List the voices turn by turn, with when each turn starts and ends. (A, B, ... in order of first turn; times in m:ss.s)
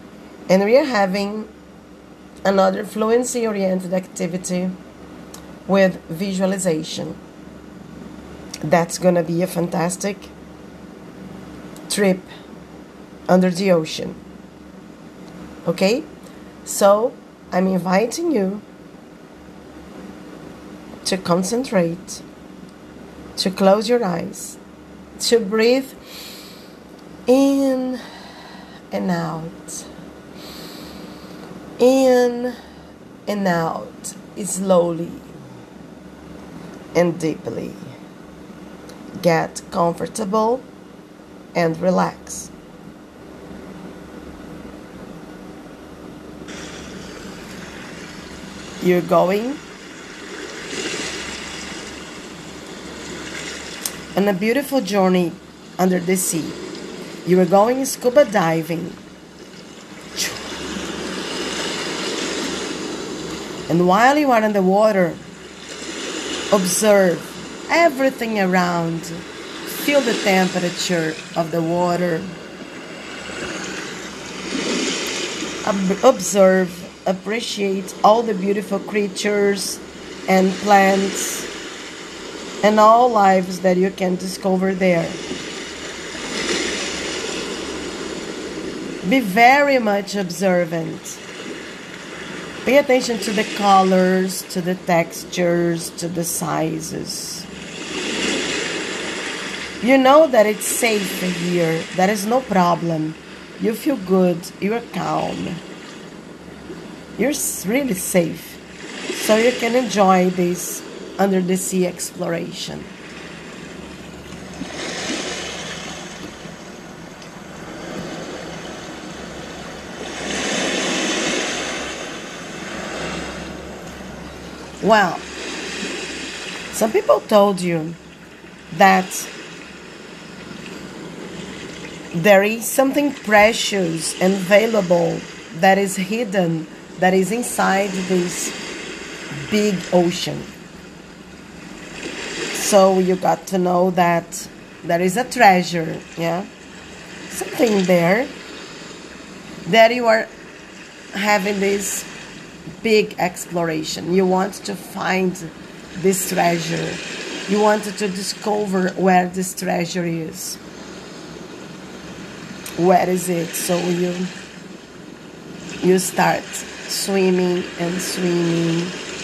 0:00.5-0:01.5 A
0:02.4-0:04.8 A
0:05.6-0:07.2 A
0:08.6-0:10.3 A
0:11.9-0:12.3 A
0:13.3-0:14.2 A
0:15.6-0:16.1 A
0:16.6-0:18.6 A
0:21.0-0:22.2 A
0:23.4-0:24.6 A
0:25.2-0:26.0 A
0:27.3-0:28.0 A
0:28.9-0:29.9 A
0:31.8-0:32.6 A
0:33.3-0:35.3 A
0:36.9-0:37.8 A
0:39.2-0:40.6 A
0:41.5-0:42.5 A
0:48.8-0:49.6 A
0:54.1-0:56.6 A
0:57.2-0:59.0 A
1:00.1-1:00.5 A
1:03.7-1:05.2 A
1:06.5-1:12.4 A
1:15.6-1:21.5 A
1:22.6-1:25.2 A
1:29.0-1:31.2 A
1:32.6-1:37.5 A
1:39.8-1:45.6 A
1:47.2-1:48.6 A
1:49.1-1:52.9 A
2:04.8-2:05.3 A
2:06.7-2:08.0 A
2:08.7-2:09.3 A
2:12.1-2:18.5 A
2:19.5-2:20.5 A
2:22.5-2:26.5 A
2:27.3-2:28.3 A
2:29.6-2:30.3 A
2:31.1-2:32.1 A
2:32.8-2:40.6 A
2:42.8-2:44.3 A
2:45.8-2:49.0 A